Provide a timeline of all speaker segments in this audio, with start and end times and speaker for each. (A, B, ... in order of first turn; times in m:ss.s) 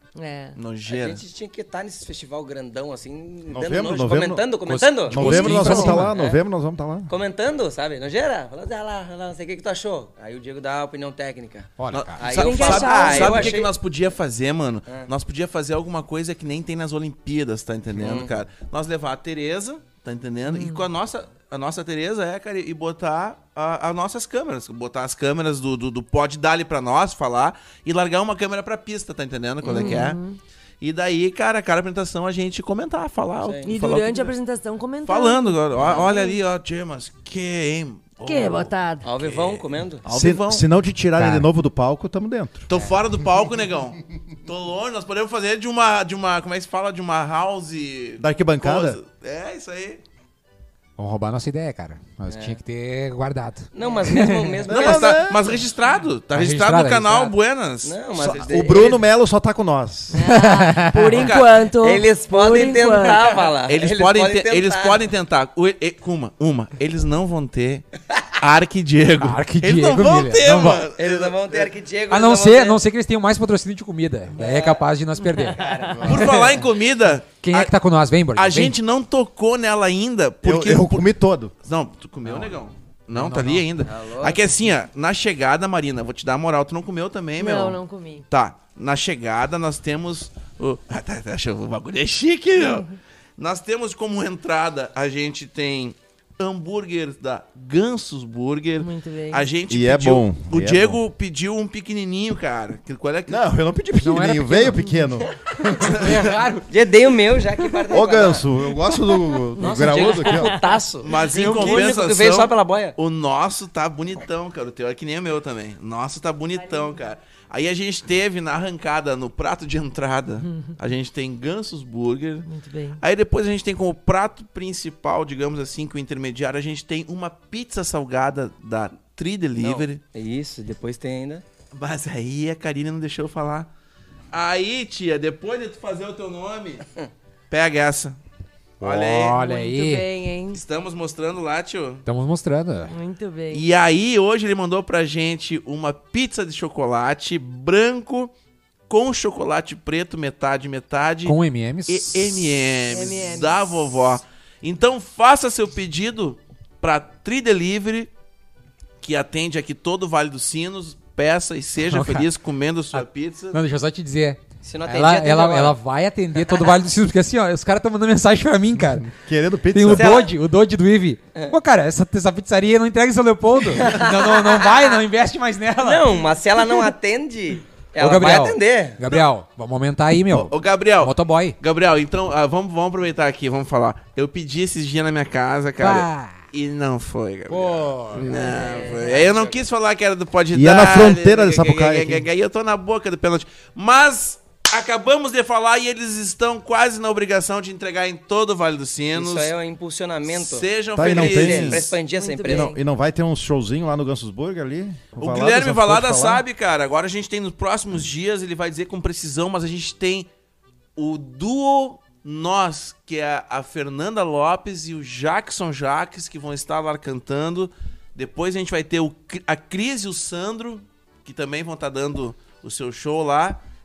0:00.2-0:00.6 A
0:00.6-0:01.2 B
0:00.9-0:06.4 C
0:03.5-0:04.5 D
0:04.7-0:06.1 E
0:05.0-0:07.1 D
0:05.2-0:06.0 A
0:07.1-0:13.7 C
0:11.8-0:12.2 E
0:11.9-0:30.2 B
0:12.3-0:13.6 A
0:18.0-0:18.3 C
0:20.5-0:20.9 A
0:29.6-0:30.0 C
0:29.6-0:30.4 A
0:30.8-0:34.3 B
0:33.4-0:33.7 C
0:33.7-0:36.4 A
0:35.0-0:40.7 B
0:35.8-0:36.1 C
0:38.2-0:39.1 A
0:39.0-0:40.0 C
0:40.1-0:42.7 D
0:41.2-0:41.5 E
0:42.7-0:50.0 B
0:48.2-0:49.0 D
0:51.0-0:54.6 E
0:52.3-0:52.6 C
0:53.7-0:55.2 C
0:54.7-0:55.5 D
0:54.7-0:59.0 B
0:56.3-0:57.4 E
0:57.8-0:59.0 C
0:58.2-1:00.3 D
1:00.1-1:03.4 A
1:00.3-1:01.3 E
1:01.1-1:01.6 B
1:01.8-1:05.0 C
1:03.6-1:07.8 B
1:08.4-1:11.7 B
1:09.2-1:10.9 E
1:11.0-1:12.8 C
1:12.1-1:16.0 E
1:14.4-1:14.8 C
1:15.2-1:16.3 A
1:15.6-1:16.4 C
1:16.0-1:16.2 D
1:16.0-1:17.7 B
1:17.4-1:18.8 E
1:18.4-1:21.1 B
1:20.4-1:21.5 D
1:21.6-1:43.4 B
1:22.2-1:22.6 E
1:23.1-1:23.7 E
1:23.8-1:24.4 C
1:27.4-1:28.3 A
1:32.6-1:32.9 A
1:38.8-1:39.5 A
1:39.7-1:41.0 D
1:43.3-1:46.1 D
1:44.0-1:45.0 E
1:45.6-1:46.7 E
1:45.9-1:46.3 B
1:46.7-1:48.4 C
1:47.9-1:50.6 D
1:49.6-1:50.8 A
1:49.6-1:53.0 C
1:51.0-2:02.5 B
1:56.6-1:57.0 A
2:00.4-2:00.8 A
2:02.4-2:03.0 A
2:03.0-2:10.0 B
2:09.6-2:11.4 C
2:11.7-2:13.7 B
2:14.3-2:16.8 B
2:17.5-2:18.2 B
2:18.8-2:19.4 B
2:18.8-2:20.0 E
2:19.4-2:20.6 A
2:20.5-2:22.0 B
2:22.1-2:22.9 E
2:22.9-2:23.7 A
2:23.5-2:28.3 B
2:28.9-2:38.1 B
2:31.2-2:32.5 E
2:32.9-2:33.9 A
2:39.0-2:43.6 B
2:41.9-2:42.3 E
2:42.9-2:49.1 E
2:44.6-2:45.8 C
2:49.1-2:50.3 D
2:49.7-2:56.2 E
2:49.9-2:50.3 C
2:53.8-2:54.6 C
2:55.8-2:59.0 C
2:58.0-3:01.6 E
3:00.5-3:19.5 B
3:05.8-3:06.4 E
3:07.5-3:08.4 E
3:08.3-3:09.4 A
3:08.4-3:09.6 C
3:10.5-3:12.3 D
3:19.2-3:22.8 C
3:20.3-3:22.0 B
3:20.9-3:26.4 D
3:22.1-3:22.8 A
3:25.2-3:30.3 B
3:31.0-3:43.6 B